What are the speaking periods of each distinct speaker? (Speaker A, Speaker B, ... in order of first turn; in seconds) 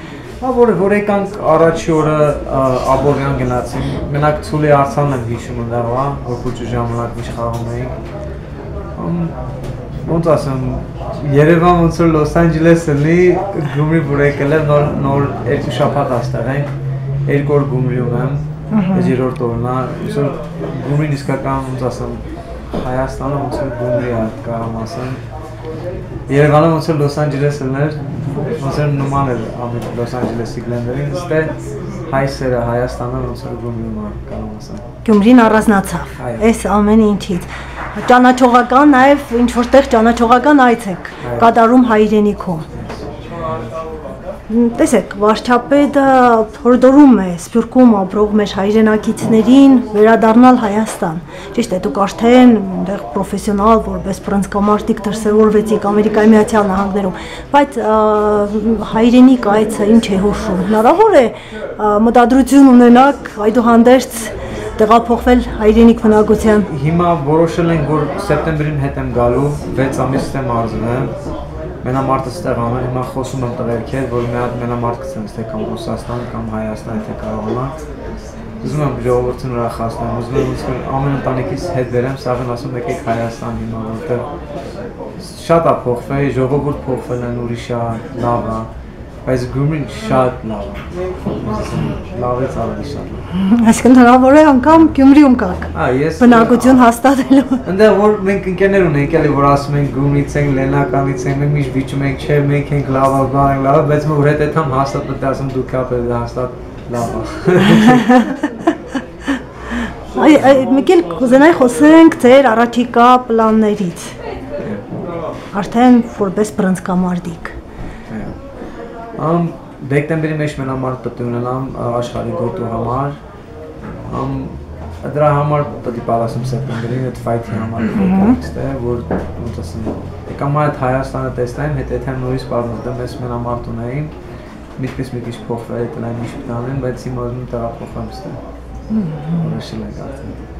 Speaker A: 0.4-8.0, 9.0-9.4, 10.0-16.7, 17.3-25.2, 26.3-31.5, 32.1-34.9, 36.2-36.5, 41.2-41.5, 42.7-43.6, 66.7-71.1, 71.8-77.7, 78.6-84.2, 85.2-88.7, 89.2-93.2, 94.7-94.9, 95.7-96.8, 97.6-108.3, 118.1-118.4, 119.2-123.2, 124.1-134.1, 134.8-138.4, 139.4-140.4
Speaker B: 18.7-19.1, 35.0-42.7, 44.5-66.7, 93.3-97.6, 107.8-108.5, 109.7-114.2, 115.5-117.5, 128.0-128.3, 138.9-139.5